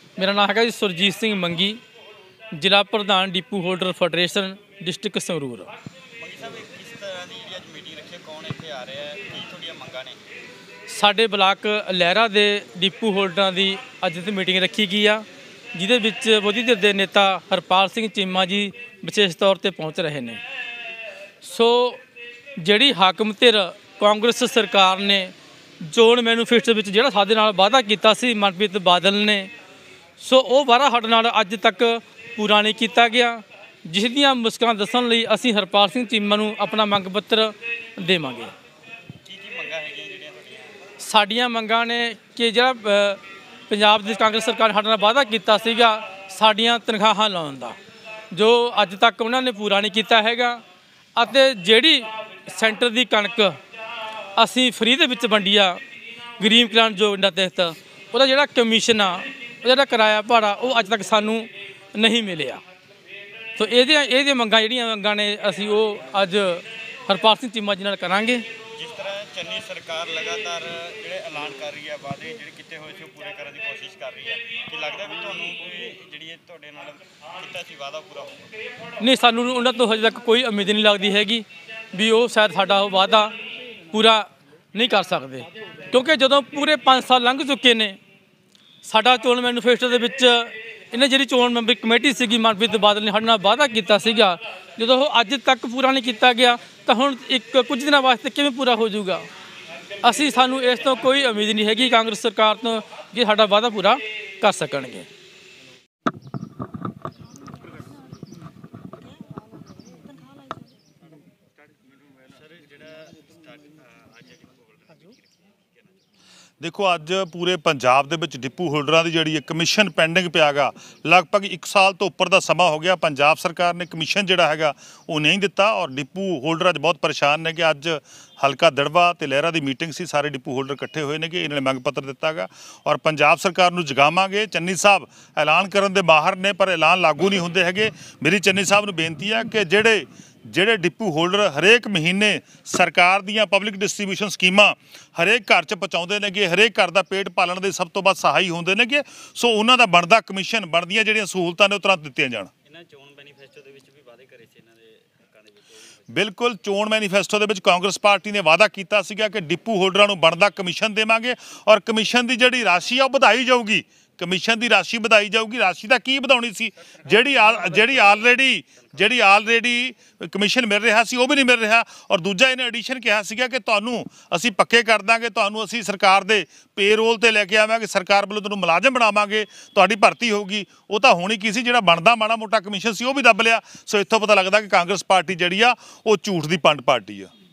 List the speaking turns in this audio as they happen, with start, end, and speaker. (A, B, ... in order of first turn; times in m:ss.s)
0:00.2-0:01.8 A
0:02.5-0:05.7 A
0:06.2-0:10.2 B
0:10.9-0:20.4 A
0:21.4-0:22.0 A
0:22.6-0:29.5 A
0:30.2-0:38.5 A
0:39.2-0:40.8 B
0:41.0-0:47.8 A
0:48.3-0:50.6 A
0:51.2-0:53.6 A
0:54.4-0:55.8 A
0:56.4-1:02.6 A
1:03.6-1:08.4 A
1:08.8-1:18.5 B
1:19.0-1:23.3 A
1:23.9-1:28.0 A
1:28.8-1:39.2 A
1:40.0-1:45.1 A
1:52.3-1:55.2 B
1:56.6-2:32.5 C
2:32.7-2:35.9 B
2:36.1-3:07.3 C
2:47.6-2:48.2 B
2:48.8-2:49.1 B